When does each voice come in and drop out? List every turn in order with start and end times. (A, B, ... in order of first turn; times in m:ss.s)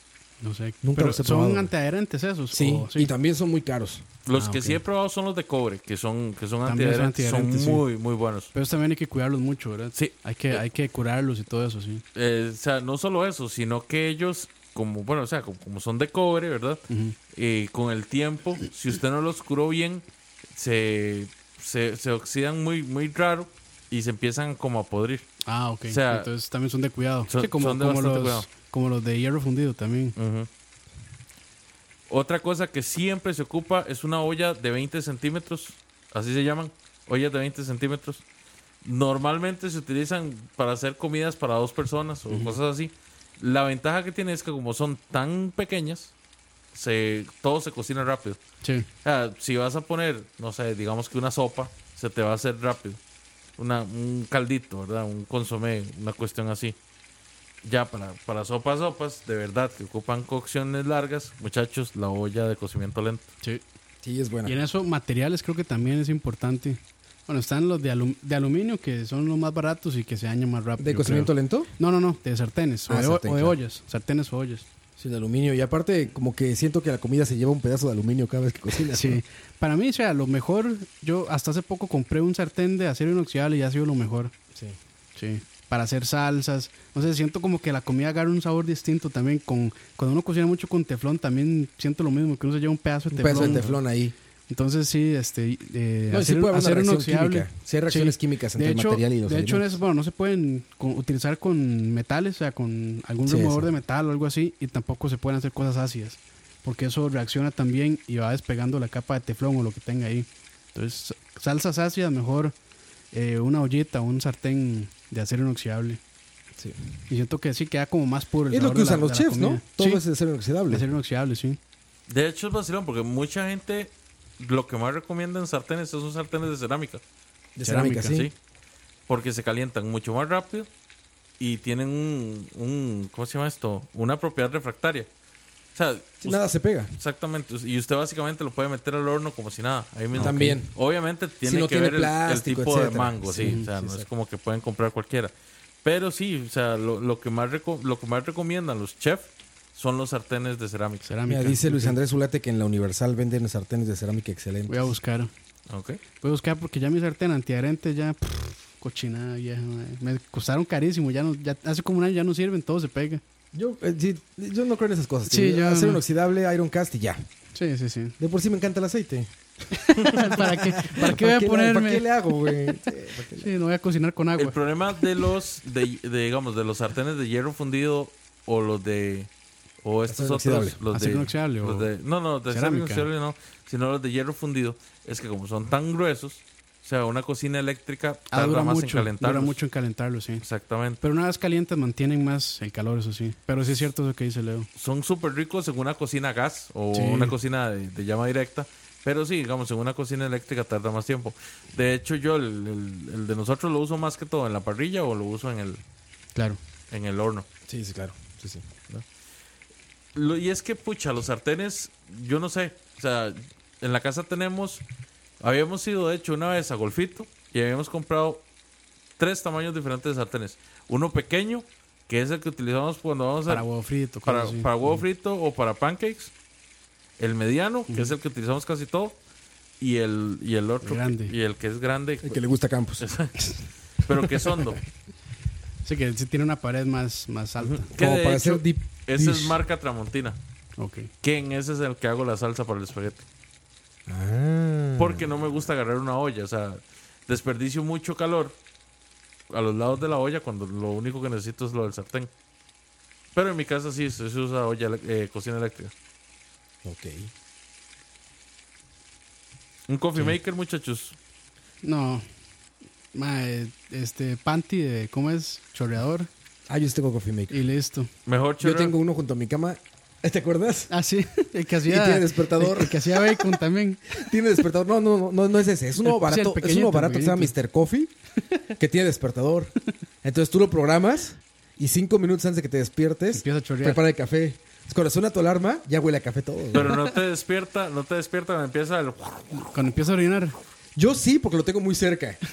0:00.4-0:03.1 A
0:00.8-0:01.7 B
0:02.5-0:04.1 B
0:04.3-0:08.5 C
0:04.3-0:04.8 A
0:06.6-0:07.8 A
0:08.5-0:12.0 A
0:10.0-0:10.6 C
0:12.2-0:25.3 C
0:16.9-0:17.2 A
0:25.5-0:30.2 A
0:25.9-0:26.3 C
0:27.3-0:28.5 C
0:30.2-0:30.5 C
0:32.1-0:38.2 C
0:38.8-0:46.1 C
0:42.3-0:42.6 A
0:46.7-0:48.4 C
0:48.6-0:48.9 A
0:49.0-0:53.0 C
0:53.6-0:56.8 C
0:57.6-1:03.3 C
1:04.0-1:04.6 B
1:04.5-1:14.7 A
1:10.8-1:11.7 B
1:12.9-1:13.6 B
1:15.0-1:19.2 B
1:18.9-1:24.3 A
1:25.2-1:33.8 A
1:33.1-1:34.2 B
1:34.5-1:52.6 A
1:36.1-1:39.8 B
1:43.3-1:43.7 B
1:53.1-1:56.0 A
1:57.1-2:00.0 A
1:58.5-2:00.9 B
2:00.7-2:01.6 A
2:02.1-2:07.0 C
2:07.6-2:08.3 B
2:07.6-2:08.2 A
2:09.1-2:10.7 C
2:11.4-2:15.1 C
2:15.8-2:31.0 C
2:16.2-2:16.9 B
2:20.1-2:20.7 B
2:20.2-2:20.6 A
2:21.4-2:24.1 B
2:23.4-2:23.7 A
2:31.0-2:32.0 A
2:31.3-2:35.0 B
2:34.7-2:35.3 A
2:35.7-2:36.0 C
2:36.2-2:43.2 A
2:43.5-2:47.2 B
2:45.3-2:46.0 A
2:47.6-2:48.2 A
2:48.2-2:53.5 B
2:49.7-2:52.8 A
2:53.4-2:54.6 A
2:54.4-2:59.3 C
2:59.8-3:09.6 C
3:00.1-3:00.8 B
3:00.9-3:01.9 A
3:02.5-3:03.1 A
3:08.3-3:10.4 A
3:10.4-3:11.0 C
3:11.0-3:14.7 A
3:14.8-3:25.8 C
3:16.9-3:17.4 A
3:26.9-3:27.5 C
3:27.7-3:28.7 B
3:30.2-3:34.8 C
3:35.4-3:38.4 C
3:39.2-3:43.7 C
3:43.5-3:45.0 A
3:44.2-3:46.3 C
3:47.2-3:49.2 C
3:47.9-3:48.1 A
3:49.8-3:52.4 C
3:50.8-3:51.3 A
3:52.2-3:53.1 B
3:53.0-3:54.8 C
3:55.8-3:57.9 A
3:57.6-4:00.4 C
3:58.0-3:59.6 B
4:00.8-4:01.1 A
4:01.2-4:03.2 C
4:04.1-4:05.3 B
4:05.0-4:08.6 C
4:09.5-4:12.3 C
4:13.3-4:15.9 C
4:16.8-4:17.3 B
4:19.9-4:21.2 C
4:21.8-4:22.2 A
4:23.1-4:26.3 A
4:26.7-4:27.6 B
4:27.5-4:28.1 A
4:28.3-4:29.0 C
4:28.6-4:30.9 B
4:30.9-4:34.1 A
4:31.9-4:33.6 B
4:34.1-4:38.1 B
4:36.0-4:37.5 A
4:38.8-4:47.0 B
4:43.3-4:44.0 A
4:46.7-4:49.8 C
4:49.7-4:50.6 A
4:51.0-4:52.4 B